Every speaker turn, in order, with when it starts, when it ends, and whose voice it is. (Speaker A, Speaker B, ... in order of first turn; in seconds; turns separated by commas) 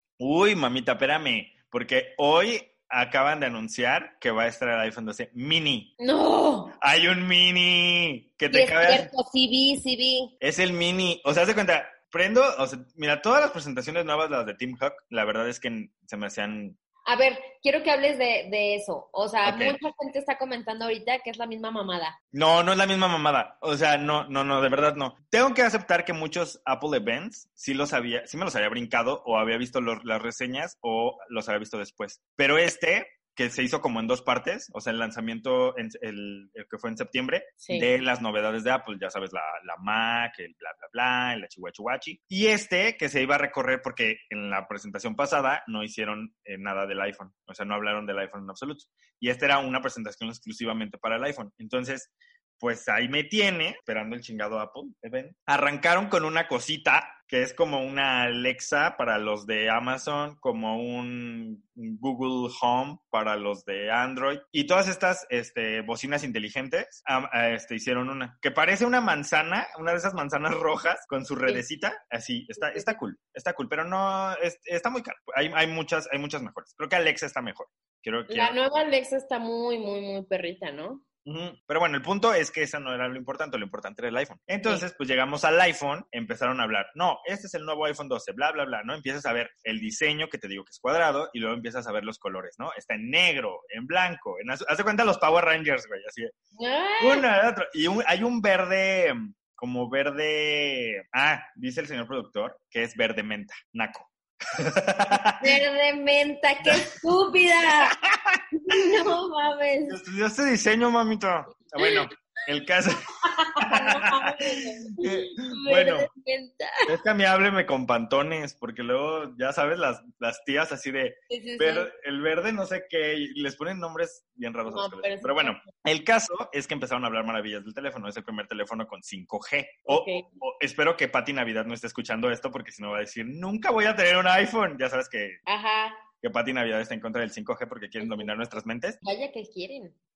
Speaker A: 0.2-5.9, Speaker B: 6.0-6.7, Speaker A: 6.8-9.1, Speaker B: 8.5-10.3, Speaker A: 10.4-16.8, Speaker B: 17.1-22.2, Speaker A: 19.4-19.8, Speaker A: 22.3-78.6, Speaker B: 37.6-37.9, Speaker B: 72.6-73.0, Speaker B: 78.3-81.0, Speaker A: 81.2-96.3, Speaker B: 96.6-97.2, Speaker A: 97.0-105.5, Speaker B: 105.4-108.0, Speaker A: 108.1-108.8, Speaker B: 108.6-110.0, Speaker A: 109.9-113.1, Speaker B: 113.2-116.9, Speaker A: 113.6-116.1, Speaker A: 116.9-135.4, Speaker B: 121.3-121.9, Speaker B: 124.7-125.7, Speaker B: 129.9-130.3, Speaker B: 135.5-136.0, Speaker A: 136.2-139.0, Speaker B: 138.0-138.3, Speaker B: 139.0-139.9